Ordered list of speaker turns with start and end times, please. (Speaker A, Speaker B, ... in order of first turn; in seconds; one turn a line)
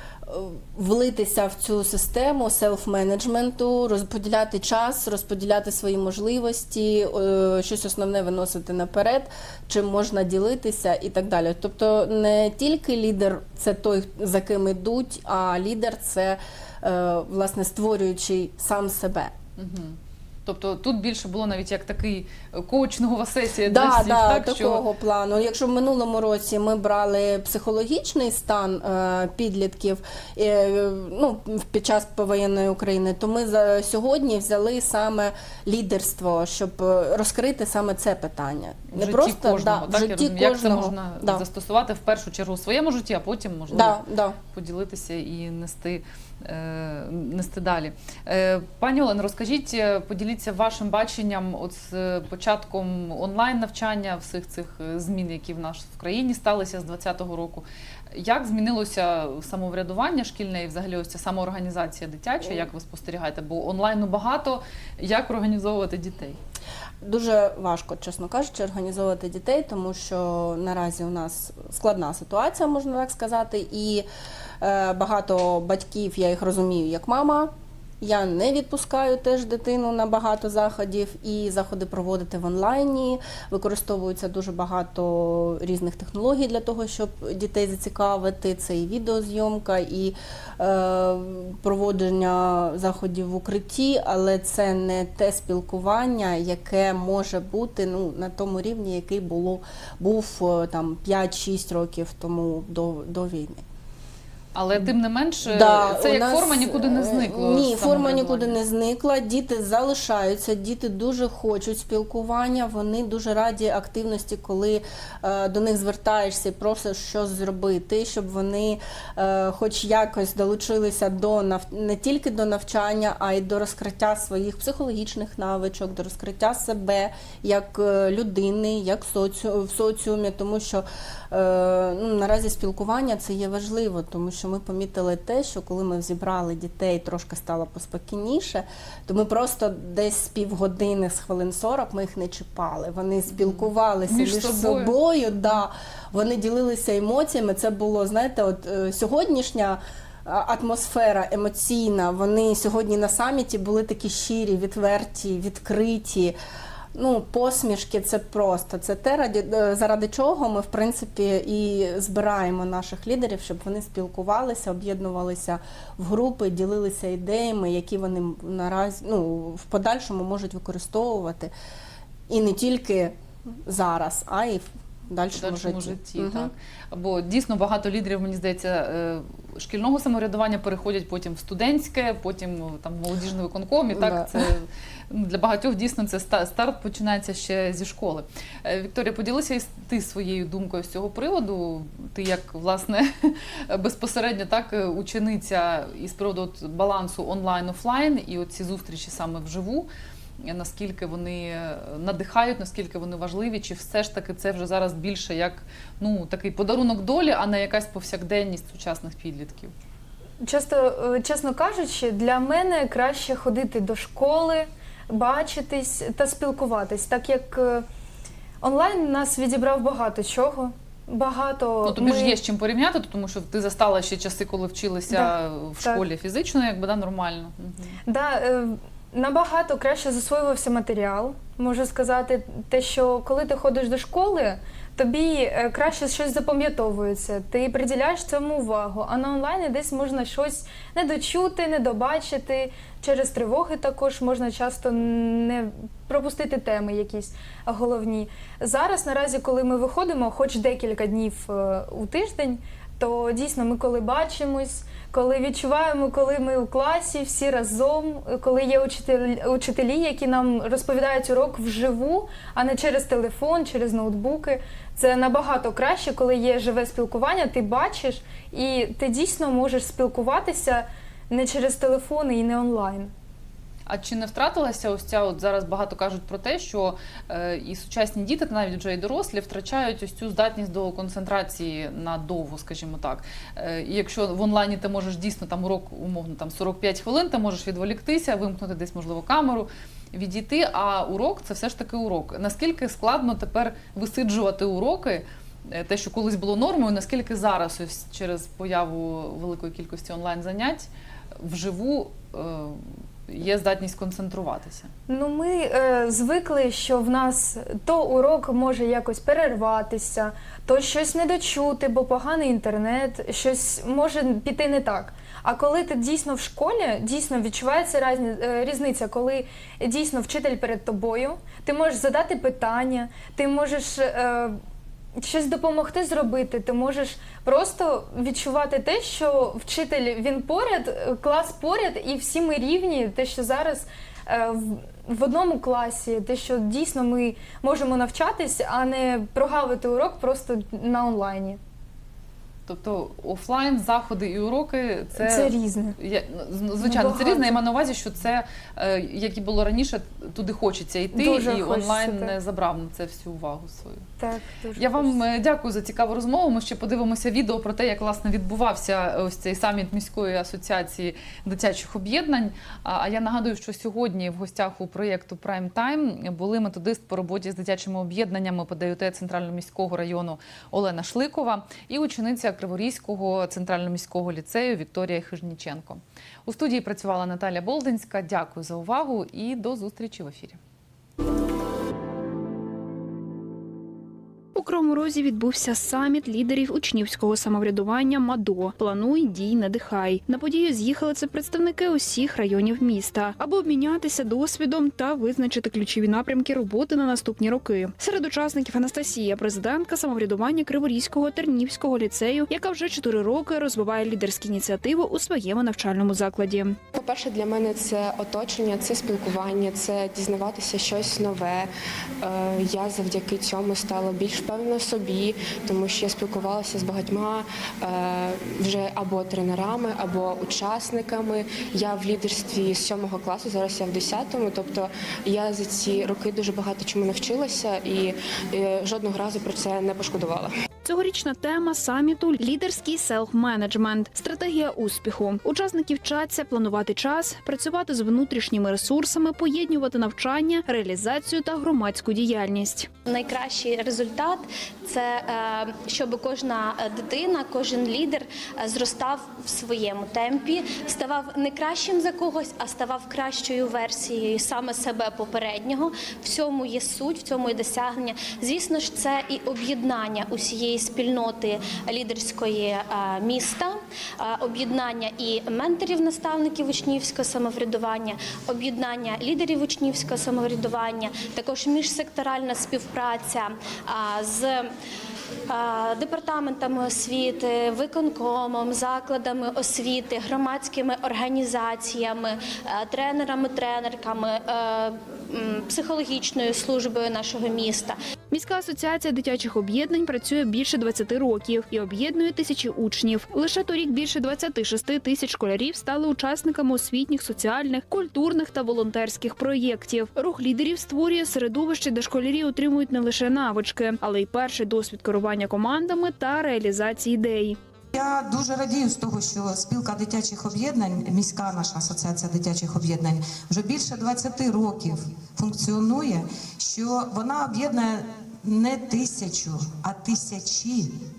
Speaker A: 0.3-19.3
Speaker B: 19.6-24.8
Speaker A: 23.6-41.4
Speaker B: 38.9-44.0
Speaker A: 43.7-44.4
Speaker B: 44.5-66.4
Speaker A: 67.0-74.1
Speaker A: 74.6-103.6
Speaker B: 104.5-108.6
Speaker A: 105.4-156.3
Speaker B: 143.3-144.9
Speaker A: 156.9-171.5
Speaker A: 172.3-176.5
Speaker B: 175.3-199.9
Speaker A: 183.9-184.3
Speaker B: 200.4-209.7
Speaker C: 210.4-217.8
Speaker C: 218.6-222.4
Speaker B: 221.8-228.0
Speaker C: 225.1-226.0
Speaker C: 228.1-273.1
Speaker B: 273.9-300.9
Speaker B: 301.4-304.9
Speaker C: 305.1-324.6
Speaker C: 325.2-341.6
Speaker B: 342.7-354.0
Speaker C: 345.2-345.9
Speaker C: 346.8-347.5
Speaker C: 351.1-352.3
Speaker C: 354.2-355.2
Speaker B: 354.8-380.6
Speaker D: 384.5-406.8
Speaker E: 406.9-411.7
Speaker E: 412.2-430.5
Speaker D: 430.8-442.9
Speaker F: 443.1-474.7
Speaker F: 475.5-488.0
Speaker D: 488.3-507.6
Speaker G: 507.9-520.9